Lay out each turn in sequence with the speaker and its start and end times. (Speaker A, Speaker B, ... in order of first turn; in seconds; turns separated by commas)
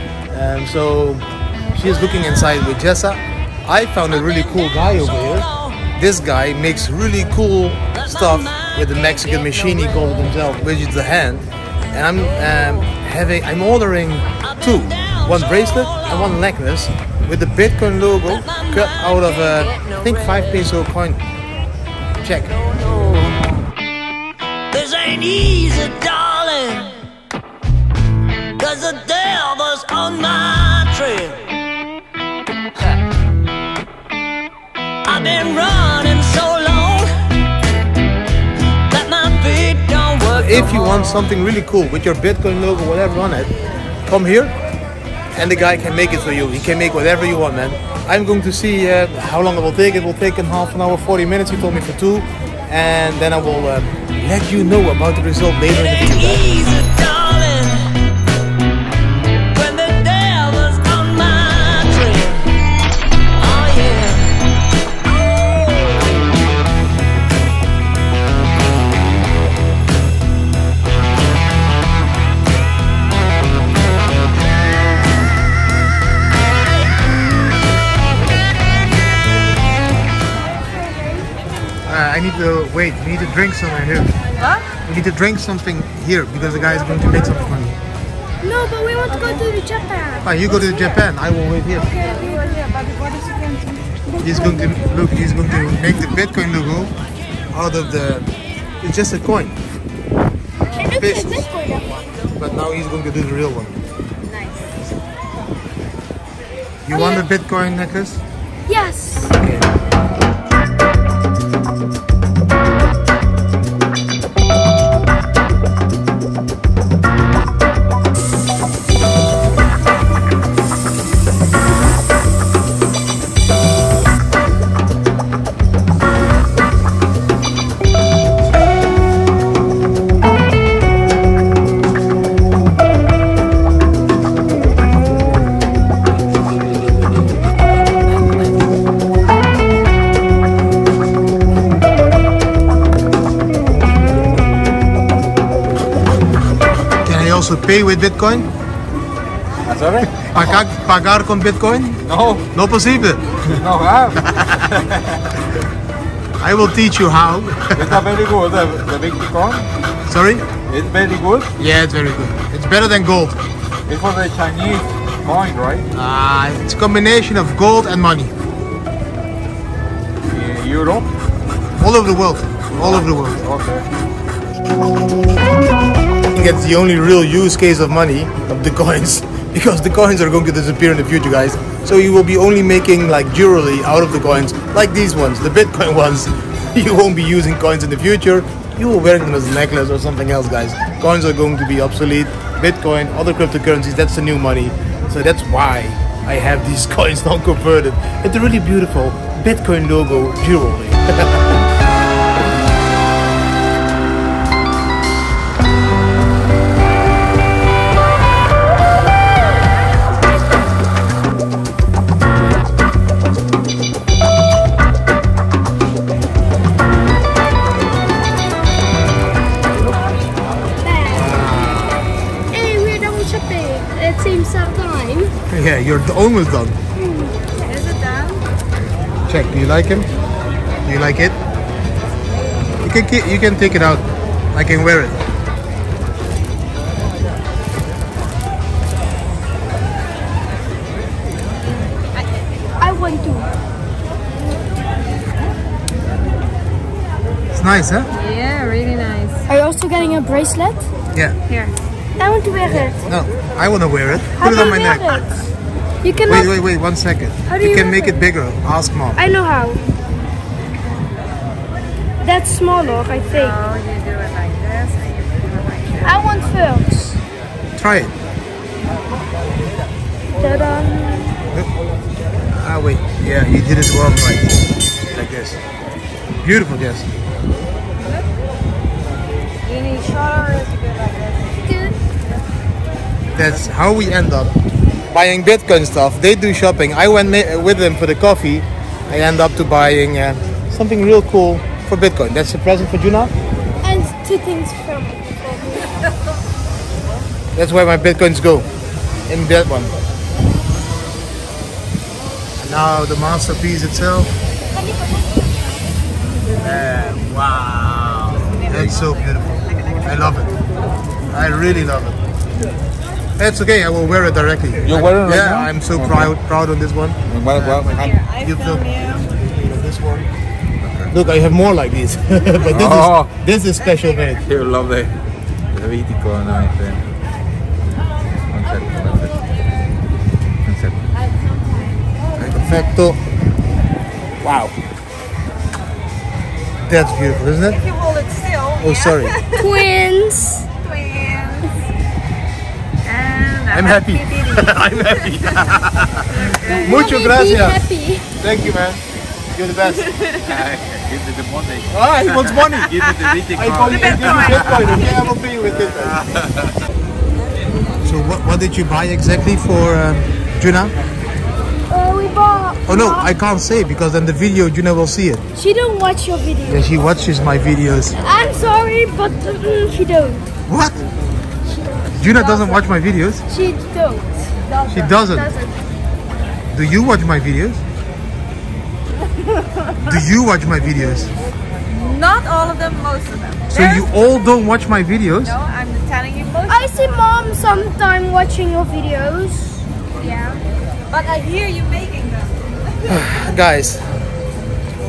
Speaker A: 0.3-1.2, Speaker A: 1.7-21.2, Speaker B: 4.4-5.7, Speaker B: 8.2-8.7, Speaker B: 14.8-16.1, Speaker B: 18.5-19.9, Speaker A: 22.2-22.6, Speaker B: 24.7-27.0, Speaker B: 28.6-31.6, Speaker B: 35.0-37.1, Speaker B: 38.9-40.6, Speaker A: 40.3-43.5, Speaker A: 44.1-44.5, Speaker A: 45.3-56.5, Speaker B: 55.8-57.9, Speaker B: 59.5-62.5, Speaker B: 63.4-64.4, Speaker B: 65.0-66.2, Speaker C: 80.7-81.2, Speaker A: 81.8-84.1, Speaker D: 84.4-84.7, Speaker A: 84.8-87.8, Speaker C: 88.4-90.4, Speaker D: 89.1-89.4, Speaker A: 90.2-92.0, Speaker D: 90.6-90.9, Speaker D: 91.8-94.0, Speaker C: 91.9-92.6, Speaker C: 94.1-94.8, Speaker A: 94.2-96.9, Speaker A: 97.5-98.3, Speaker A: 98.8-99.6, Speaker C: 100.7-102.0, Speaker A: 100.9-101.4, Speaker A: 102.3-103.8, Speaker D: 104.2-104.7, Speaker A: 106.8-108.2, Speaker C: 106.9-107.2, Speaker C: 108.7-109.3, Speaker A: 109.3-109.7, Speaker A: 147.0-148.5, Speaker E: 149.7-150.6, Speaker A: 150.3-153.6, Speaker E: 152.0-152.5, Speaker E: 153.5-155.4, Speaker A: 154.2-154.8, Speaker A: 156.4-158.0, Speaker E: 157.8-159.7, Speaker A: 160.1-160.5, Speaker E: 160.6-161.5, Speaker A: 161.6-163.4, Speaker E: 163.8-165.9, Speaker A: 165.9-168.3, Speaker E: 170.2-171.1, Speaker A: 171.8-173.4, Speaker E: 172.7-173.9, Speaker A: 176.3-201.6, Speaker C: 220.8-221.4, Speaker A: 221.1-222.1, Speaker C: 222.5-225.3, Speaker A: 225.5-226.8, Speaker C: 227.0-227.3, Speaker D: 227.6-228.4, Speaker A: 229.3-230.1, Speaker A: 230.8-231.4, Speaker A: 232.8-235.2, Speaker C: 242.8-243.5, Speaker A: 247.5-248.1, Speaker D: 248.1-249.4, Speaker C: 249.5-250.9, Speaker C: 252.2-253.0, Speaker A: 253.0-255.4, Speaker C: 254.4-255.4, Speaker C: 256.0-256.5, Speaker A: 256.3-259.2, Speaker C: 257.5-258.2, Speaker C: 259.1-259.8, Speaker C: 262.2-263.7, Speaker D: 263.2-266.5, Speaker C: 266.0-267.2, Speaker A: 267.8-268.1, Speaker C: 270.3-271.4, Speaker A: 272.5-275.6, Speaker A: 276.4-277.1, Speaker D: 278.0-278.3, Speaker D: 279.6-281.7, Speaker C: 281.6-282.0, Speaker A: 283.3-284.5, Speaker A: 285.1-293.3, Speaker C: 293.8-296.1, Speaker A: 297.5-298.7, Speaker A: 299.3-299.9, Speaker A: 302.6-304.3, Speaker C: 304.7-305.4, Speaker A: 306.6-310.5, Speaker D: 308.5-310.3, Speaker A: 311.3-312.2, Speaker A: 313.4-320.3, Speaker E: 314.8-316.3, Speaker E: 317.3-318.1, Speaker D: 318.0-319.3, Speaker E: 320.8-321.1, Speaker A: 321.1-324.4, Speaker E: 322.6-323.3, Speaker E: 324.4-325.1, Speaker E: 325.7-327.0, Speaker E: 328.5-329.4, Speaker E: 330.6-331.0, Speaker A: 332.4-333.2, Speaker A: 334.4-334.7, Speaker A: 336.9-337.8, Speaker D: 337.7-339.8, Speaker A: 338.8-339.4, Speaker C: 339.6-340.7, Speaker D: 340.8-341.8, Speaker D: 343.0-347.0, Speaker A: 343.7-347.8, Speaker C: 346.6-348.3, Speaker A: 348.4-349.0, Speaker A: 349.5-350.1, Speaker D: 350.1-350.6, Speaker E: 350.4-355.0, Speaker A: 351.9-352.9, Speaker D: 353.0-355.4, Speaker A: 353.5-356.2, Speaker E: 355.8-356.8, Speaker A: 358.0-360.9, Speaker C: 361.9-363.3, Speaker A: 362.9-365.4, Speaker C: 365.5-366.9, Speaker A: 366.7-368.2, Speaker C: 368.2-370.4, Speaker A: 370.7-371.0, Speaker A: 371.7-373.4, Speaker C: 372.3-372.8, Speaker C: 373.5-375.8, Speaker A: 374.9-375.5, Speaker A: 376.7-377.8, Speaker A: 380.0-381.3, Speaker D: 381.9-384.1, Speaker A: 383.7-385.6, Speaker D: 385.5-387.0, Speaker C: 386.7-389.9, Speaker D: 390.2-392.5, Speaker A: 393.1-394.0